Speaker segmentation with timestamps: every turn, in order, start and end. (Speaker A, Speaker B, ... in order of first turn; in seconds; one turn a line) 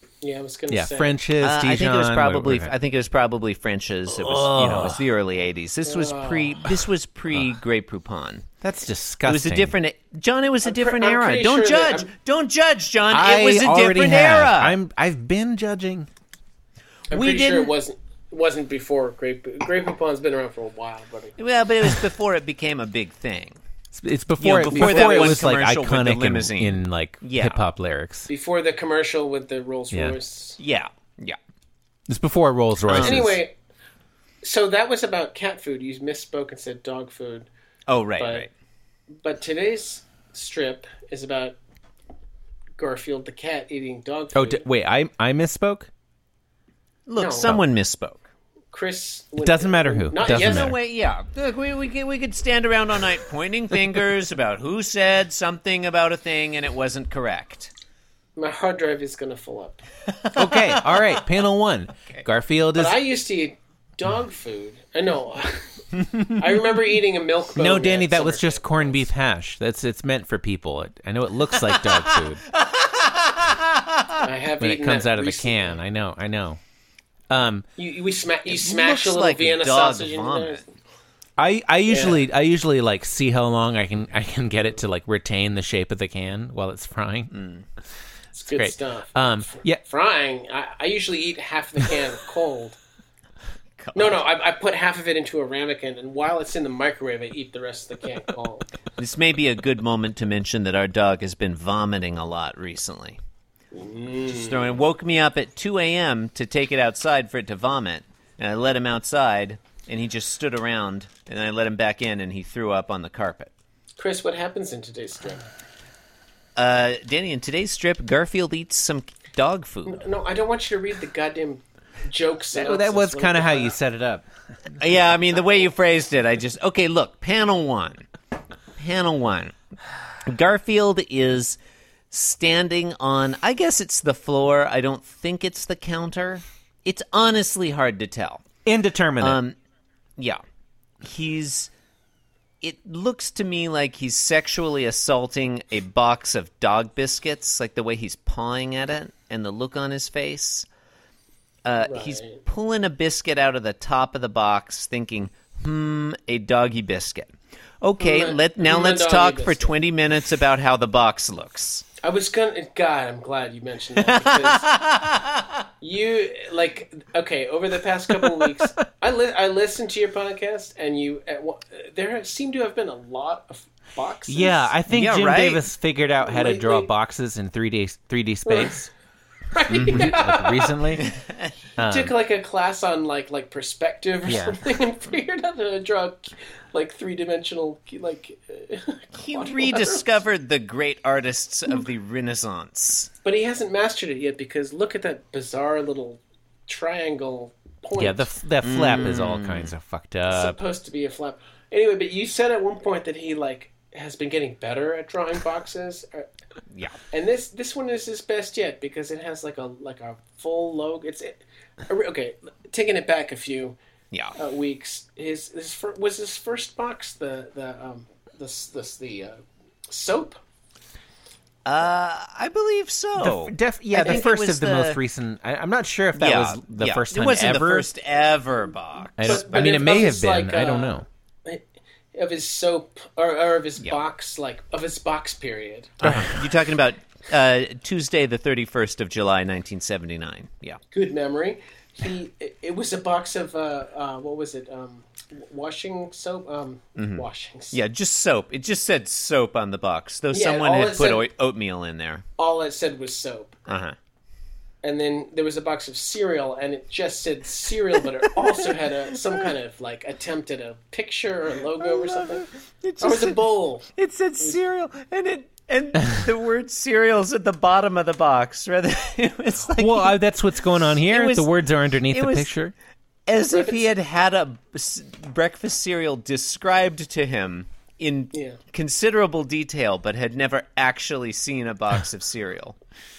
Speaker A: 0.2-1.2
Speaker B: 0.7-2.7
Speaker C: 1.4-8.4
Speaker B: 4.1-5.0
Speaker A: 5.8-6.6
Speaker B: 8.6-9.8
Speaker C: 9.2-14.8
Speaker A: 10.6-12.1
Speaker B: 13.1-16.1
Speaker C: 17.1-17.7
Speaker A: 17.1-21.3
Speaker C: 21.4-23.6
Speaker B: 23.9-28.3
Speaker C: 24.4-27.6
Speaker A: 24.7-25.4
Speaker A: 28.3-30.6
Speaker B: 29.9-30.2
Speaker C: 30.6-31.4
Speaker B: 32.1-33.4
Speaker C: 32.9-33.2
Speaker A: 33.0-33.5
Speaker A: 34.4-37.5
Speaker C: 37.9-38.5
Speaker A: 38.2-38.5
Speaker A: 39.2-41.6
Speaker A: 42.8-44.7
Speaker B: 44.3-45.9
Speaker C: 47.1-48.2
Speaker A: 47.2-47.6
Speaker A: 48.7-50.7
Speaker B: 49.4-50.8
Speaker C: 50.2-57.7
Speaker A: 58.4-59.8
Speaker C: 60.1-61.3
Speaker B: 60.4-63.0
Speaker A: 62.8-69.1
Speaker B: 67.6-72.4
Speaker C: 71.7-73.7
Speaker A: 74.2-75.8
Speaker B: 74.6-76.6
Speaker B: 77.3-77.7
Speaker A: 77.8-80.7
Speaker C: 78.5-80.6
Speaker B: 81.4-87.3
Speaker A: 81.9-82.2
Speaker C: 87.3-87.7
Speaker A: 88.3-92.8
Speaker B: 88.5-89.8
Speaker C: 93.8-94.2
Speaker A: 93.9-98.7
Speaker C: 99.0-103.2
Speaker A: 103.7-104.8
Speaker C: 104.3-113.5
Speaker A: 114.0-115.5
Speaker C: 116.6-120.0
Speaker A: 119.9-123.8
Speaker B: 122.5-124.2
Speaker C: 124.8-128.1
Speaker C: 128.8-129.5
Speaker C: 130.3-131.6
Speaker C: 132.1-138.4
Speaker B: 138.6-139.4
Speaker C: 139.2-139.6
Speaker C: 141.0-141.7
Speaker C: 142.6-150.7
Speaker C: 151.6-161.9
Speaker A: 151.8-152.4
Speaker A: 158.0-159.8
Speaker A: 162.0-164.7
Speaker C: 163.9-165.6
Speaker A: 165.8-174.8
Speaker B: 174.3-178.9
Speaker C: 174.9-175.6
Speaker A: 176.2-176.9
Speaker A: 178.4-178.9
Speaker A: 179.5-181.0
Speaker B: 179.7-181.1
Speaker C: 181.0-181.5
Speaker B: 181.8-182.1
Speaker A: 181.8-190.2
Speaker B: 184.3-184.6
Speaker C: 189.1-193.1
Speaker A: 193.2-198.3
Speaker B: 198.0-200.6
Speaker C: 198.6-199.7
Speaker A: 200.3-206.3
Speaker C: 206.7-207.0
Speaker A: 207.1-213.8
Speaker A: 214.3-220.4
Speaker C: 221.7-225.0
Speaker B: 223.2-227.9
Speaker C: 226.1-229.7
Speaker B: 229.2-231.1
Speaker A: 229.2-235.9
Speaker C: 236.0-240.8
Speaker B: 236.0-236.5
Speaker A: 240.9-247.8
Speaker C: 246.9-252.2
Speaker A: 250.3-251.3
Speaker A: 252.4-253.6
Speaker C: 253.7-253.9
Speaker A: 254.8-263.9
Speaker C: 261.9-270.2
Speaker B: 269.8-272.7
Speaker C: 270.9-271.5
Speaker C: 272.1-272.5
Speaker C: 273.3-282.8
Speaker A: 273.5-273.9
Speaker A: 278.3-278.6